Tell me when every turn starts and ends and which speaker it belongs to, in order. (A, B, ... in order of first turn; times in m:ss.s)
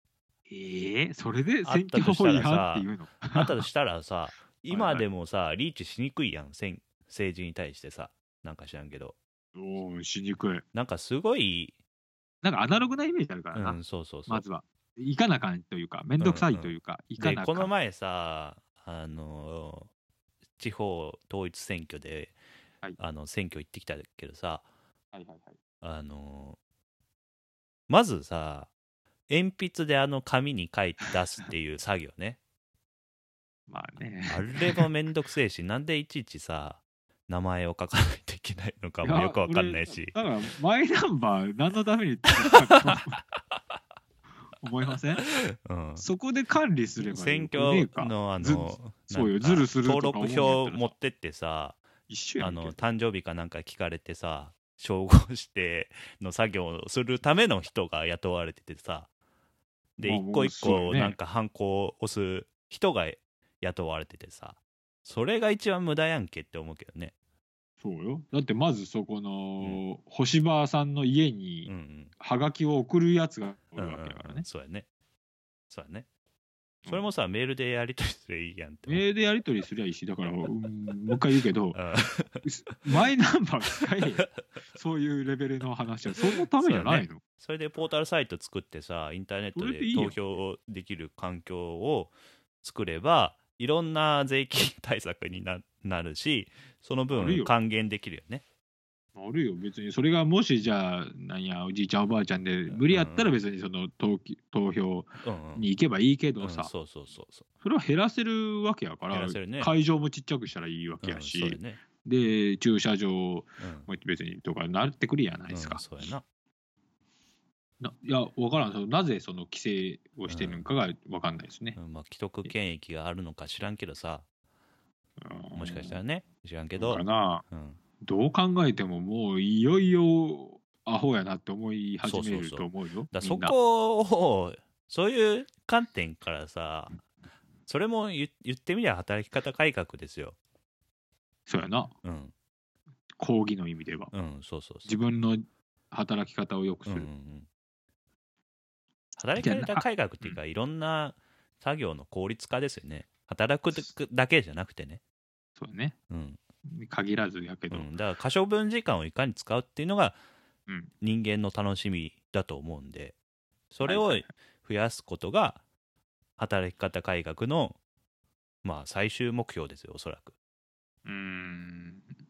0:00.5-0:03.6 A
0:01.6-0:09.2 B
0:04.7-0:05.0 A
0:09.5-0:10.6 A
0:10.7-0:11.7 B
0:12.4-0:17.7 A
0:13.5-0:14.4 B
0:16.2-0:19.9 B
0:20.6-0:22.4 B
0:23.0-0:24.6 B
0:25.1-0:25.6 A
0:25.8-0:26.6 B
0:27.9-0:28.7 B
0:29.3-0:32.4 B
0:33.7-0:34.8 A
0:34.3-0:40.2 B
0:39.0-0:43.2 A
0:44.6-0:45.2 A
0:45.2-0:46.0 B
0:46.0-0:50.9 A
0:47.0-0:51.8 B
0:52.1-0:52.8 A
0:52.4-0:59.1 B
1:00.0-1:07.1 B
1:00.0-1:01.2 A
1:07.8-1:14.4 A
1:11.6-1:12.1 B
1:13.8-1:14.9 B
1:15.7-1:16.1 B
1:16.9-1:19.0 B
1:18.9-1:21.8 A
1:21.7-1:22.4 B
1:22.4-1:27.2 A
1:26.6-1:38.4 B
1:29.5-1:30.2 A
1:37.1-1:37.5 A
1:39.2-1:46.7 A
1:42.7-1:43.3 B
1:45.2-1:45.7 B
1:46.4-1:47.5 B
1:47.6-1:55.8 A
1:49.1-1:49.7 B
1:51.0-1:51.8 B
1:53.6-1:53.9 B
1:55.5-1:56.2 B
1:57.8-2:01.8 A
2:00.3-2:00.6 B
2:01.8-2:04.2 B
2:05.2-2:06.0 A
2:05.5-2:07.8 B
2:06.8-2:07.4 A
2:08.0-2:13.5 A
2:12.0-2:17.0 B
2:17.7-2:20.4 B
2:21.5-2:21.9 A
2:22.0-2:22.3 B
2:23.2-2:24.1 A
2:24.1-2:24.9 B
2:24.8-2:27.1 A
2:26.8-2:27.5 B
2:29.2-2:35.0 B
2:29.4-2:30.4 A
2:35.6-2:36.0 A
2:36.1-2:36.4 B
2:36.7-2:37.9 A
2:37.7-2:40.2 B
2:41.0-2:43.1 B
2:43.7-2:45.6 B
2:43.8-2:44.3 A
2:46.4-2:47.8 B
2:48.6-2:50.3 B
2:51.0-2:52.1 A